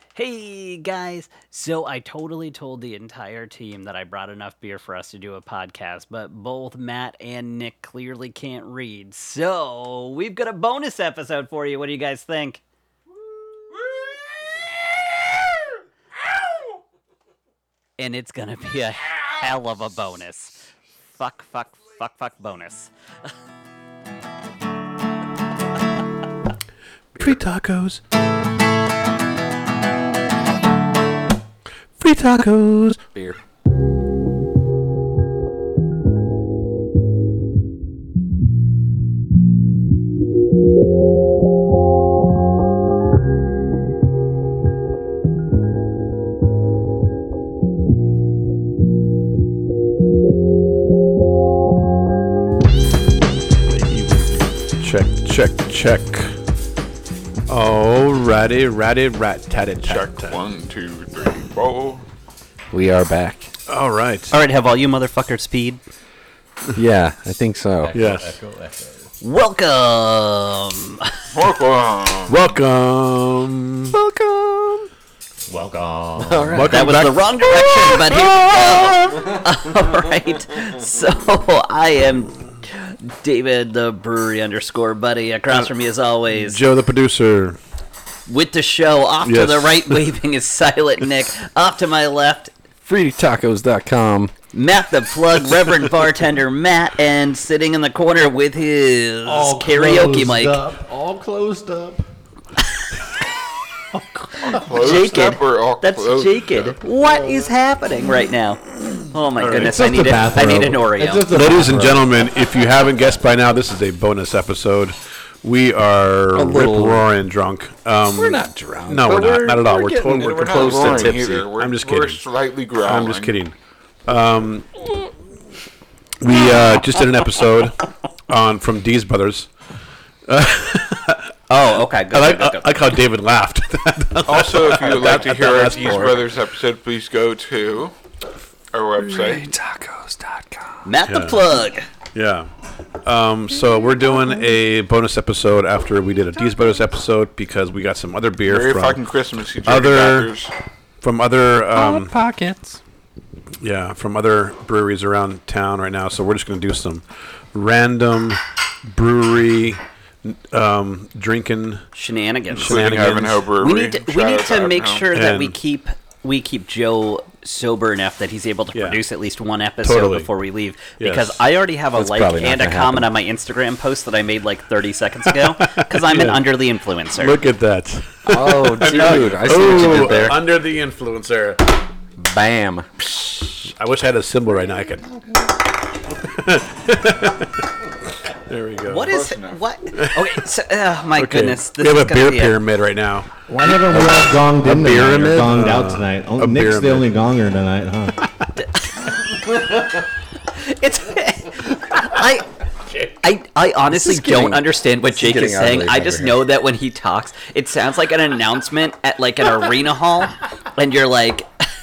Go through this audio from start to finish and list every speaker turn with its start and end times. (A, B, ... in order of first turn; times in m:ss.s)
0:00.2-0:12.6 A
0:18.0-0:20.6 A
0:21.1-0:22.9 A
0:27.1-0:28.0 B
0:32.0-0:33.0 B
0:53.8-0:54.3 C
0:54.8-0:56.4 B
0:57.5-1:00.4 B
0:59.8-1:02.0 D
1:02.7-1:03.5 E
1:03.7-1:04.3 B
1:04.3-1:05.8 A
1:06.7-1:07.9 E
1:07.8-1:09.1 C
1:07.9-1:08.3 B
1:09.2-1:11.1 A
1:11.3-1:12.5 D
1:12.3-1:14.0 B
1:13.9-1:14.9 E
1:15.5-1:16.7 C
1:16.2-1:17.0 E
1:16.5-1:18.1 B
1:16.7-1:26.6 A
1:26.3-1:27.6 B
1:28.3-1:32.5 A
1:29.2-1:30.0 B
1:32.8-1:34.3 E
1:34.5-1:40.6 A
1:39.2-1:42.1 C
1:44.3-1:51.3 A
1:44.4-1:46.8 D
1:49.4-1:50.1 B
1:49.5-1:52.1 C
1:51.3-2:02.2 B
1:56.3-1:57.1 E
1:58.0-2:01.5 E
2:00.4-2:03.4 D
2:02.8-2:03.5 B
2:04.0-2:04.9 B
2:06.2-2:07.8 B
2:08.3-2:09.5 B
2:10.3-2:11.3 B
2:11.5-2:12.8 A
2:12.1-2:16.2 B
2:14.2-2:17.9 D
2:18.7-2:19.5 D
2:19.0-2:20.9 E
2:20.8-2:21.9 A
2:21.0-2:21.4 B
2:22.1-2:22.5 B
2:23.0-2:29.0 B
2:28.5-2:30.5 D
2:29.6-2:30.3 B
2:31.0-2:32.1 B
2:31.7-2:32.8 E
2:33.6-2:41.8 B
2:41.9-2:42.8 A
2:42.5-2:43.5 B
2:42.6-2:45.1 D
2:43.6-2:57.4 A
2:45.1-2:45.6 B
2:48.7-2:49.0 B
2:49.8-2:50.3 B
2:51.0-2:51.4 B
2:51.9-2:53.1 E
2:55.7-2:56.4 B
2:57.2-3:01.6 B
2:58.3-3:00.4 E
3:02.2-3:02.8 E
3:03.0-3:05.1 B
3:06.2-3:07.5 B
3:08.5-3:09.1 B
3:08.8-3:12.6 A
3:09.1-3:09.6 D
3:10.0-3:10.4 B
3:11.2-3:13.3 B
3:13.5-3:18.2 C
3:13.9-3:15.6 E
3:14.0-3:17.1 B
3:18.6-3:19.1 A
3:20.5-3:22.5 A
3:23.1-3:31.5 A
3:23.9-3:26.4 E